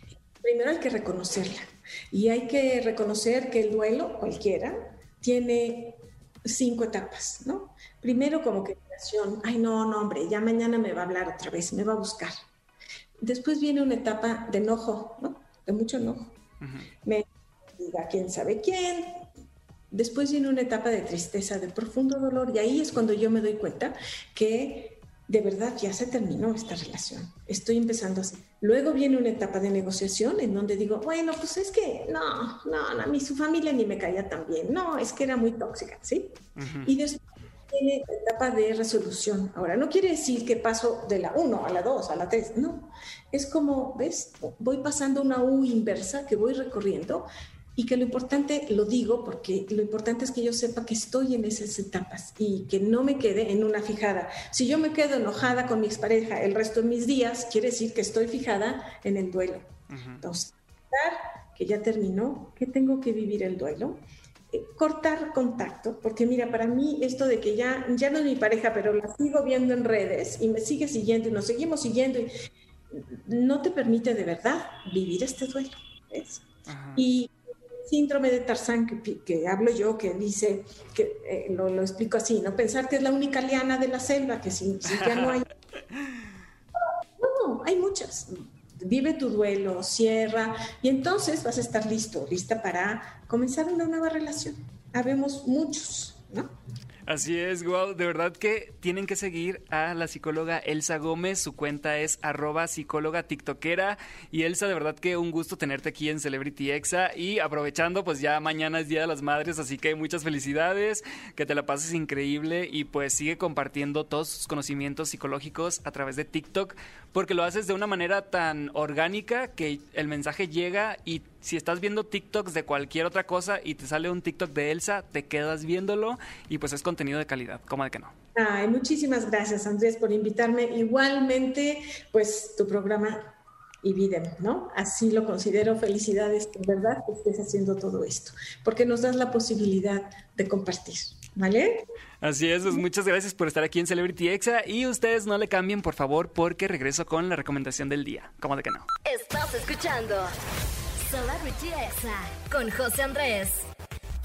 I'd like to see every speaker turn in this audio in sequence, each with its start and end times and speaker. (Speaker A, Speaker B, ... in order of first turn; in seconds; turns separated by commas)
Speaker A: 0.4-12.4, Speaker A: 13.2-16.4, Speaker B: 16.6-16.9, Speaker A: 17.0-19.3, Speaker A: 19.9-59.7, Speaker B: 36.6-36.9, Speaker B: 59.9-60.2, Speaker A: 60.2-72.4, Speaker A: 72.9-76.4, Speaker B: 76.7-77.0, Speaker A: 77.0-77.3, Speaker A: 77.9-85.5, Speaker B: 84.9-85.4, Speaker A: 86.8-96.5, Speaker B: 97.1-128.1, Speaker A: 128.4-141.9, Speaker B: 142.2-148.9, Speaker C: 149.0-150.3, Speaker C: 151.0-153.7